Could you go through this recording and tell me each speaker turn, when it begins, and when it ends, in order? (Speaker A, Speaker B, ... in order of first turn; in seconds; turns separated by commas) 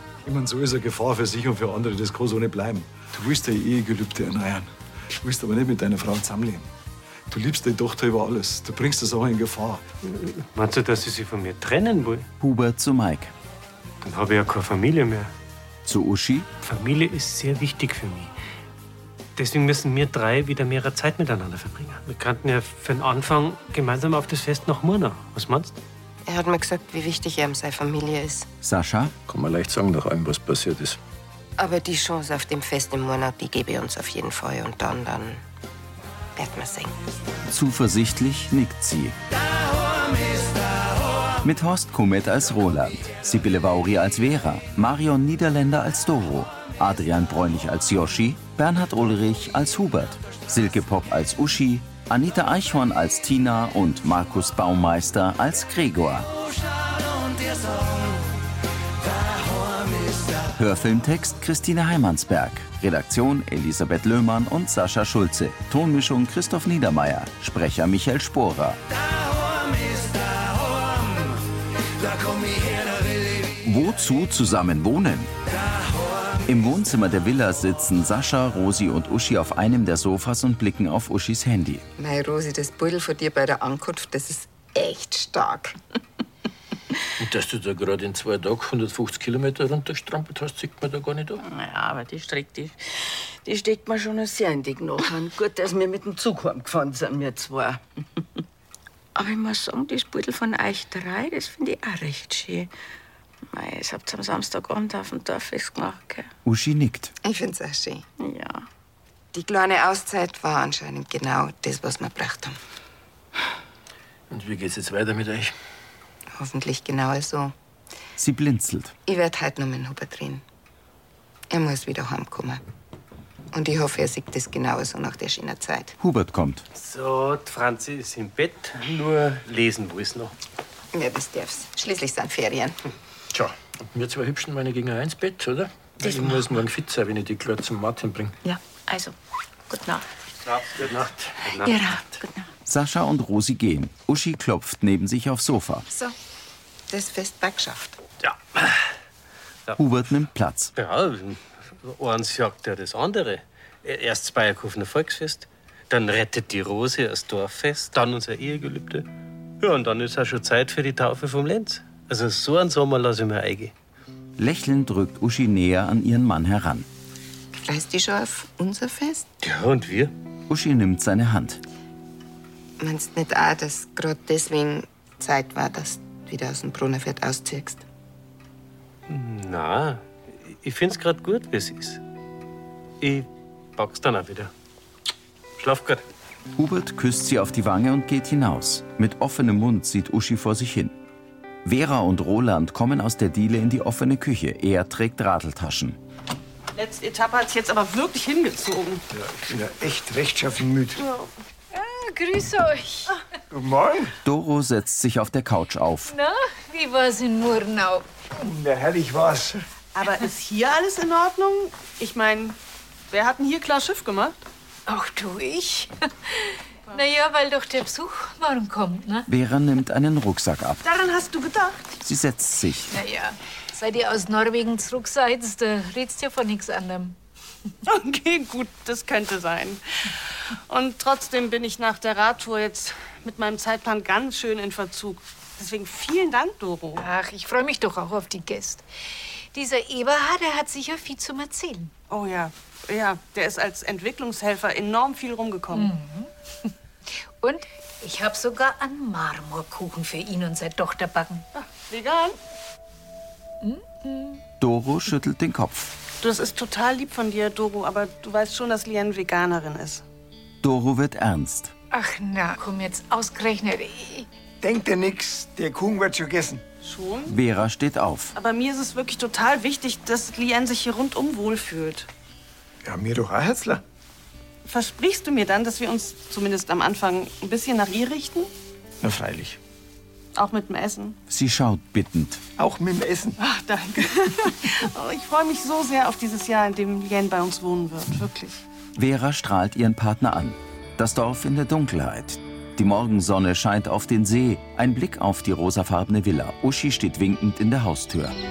Speaker A: 0.2-4.7, Speaker A: 5.2-6.7, Speaker A: 7.3-9.8, Speaker B: 10.0-12.3, Speaker C: 12.4-13.3, Speaker B: 14.0-15.3, Speaker C: 15.8-16.5, Speaker B: 16.6-18.3, Speaker B: 19.4-25.8, Speaker D: 26.2-28.5, Speaker C: 28.6-29.1, Speaker E: 29.3-31.0, Speaker D: 31.6-35.4, Speaker D: 36.4-36.9, Speaker C: 37.5-39.1, Speaker C: 41.4-56.3, Speaker C: 60.5-68.8, Speaker C: 73.6-75.3, Speaker C: 76.5-81.8, Speaker D: 82.0-85.7, Speaker E: 87.2-91.4, Speaker F: 91.4-97.8, Speaker F: 99.2-102.7, Speaker F: 103.5-106.3, Speaker C: 106.4-107.1, Speaker D: 107.2-108.0, Speaker F: 108.2-108.7, Speaker D: 109.3-112.6, Speaker E: 114.3-115.5, Speaker D: 116.4-117.5, Speaker C: 118.2-118.9, Speaker D: 119.1-120.4, Speaker D: 121.5-122.6, Speaker D: 123.5-125.9, Speaker C: 126.0-126.6, Speaker B: 126.7-130.3, Speaker D: 130.9-132.8, Speaker E: 133.3-138.3, Speaker F: 136.0-136.4, Speaker F: 138.4-139.1, Speaker F: 139.7-140.0, Speaker B: 140.5-141.8, Speaker E: 140.8-141.1, Speaker F: 141.6-142.5, Speaker C: 142.7-145.8, Speaker D: 146.9-148.0, Speaker B: 148.2-148.7, Speaker C: 149.8-150.7, Speaker B: 150.8-159.1, Speaker B: 159.6-163.7, Speaker C: 164.4-166.9, Speaker D: 167.6-169.3, Speaker B: 169.4-170.1, Speaker C: 170.5-171.6, Speaker D: 172.8-177.8, Speaker B: 179.1-182.0, Speaker B: 183.0-184.5, Speaker B: 185.6-186.0, Speaker C: 186.6-190.9, Speaker C: 191.6-196.0, Speaker G: 196.7-199.0, Speaker H: 199.1-201.0, Speaker G: 201.0-201.3, Speaker I: 201.7-203.1, Speaker H: 203.5-204.1, Speaker C: 204.2-206.1, Speaker I: 206.1-208.0, Speaker H: 208.3-209.6, Speaker G: 209.9-212.6, Speaker G: 213.1-214.4, Speaker I: 214.9-219.3, Speaker C: 219.3-220.8, Speaker G: 220.8-221.8, Speaker C: 222.0-222.9, Speaker I: 222.9-227.2, Speaker G: 227.8-229.8, Speaker G: 230.7-237.1, Speaker I: 237.0-238.8, Speaker I: 239.5-241.9, Speaker G: 242.1-245.9, Speaker I: 245.7-246.7, Speaker I: 247.4-251.4, Speaker G: 251.6-252.4, Speaker I: 253.6-254.4, Speaker C: 254.6-255.9, Speaker G: 256.2-260.0, Speaker C: 260.6-261.7, Speaker I: 261.9-264.3, Speaker H: 264.6-266.6, Speaker G: 266.8-267.3, Speaker C: 267.3-268.3, Speaker G: 268.3-272.1, Speaker H: 272.8-273.8, Speaker G: 274.6-278.5, Speaker H: 279.1-279.5, Speaker G: 280.3-281.2, Speaker C: 281.3-282.4, Speaker H: 282.6-283.4, Speaker G: 283.4-288.6, Speaker C: 288.9-298.3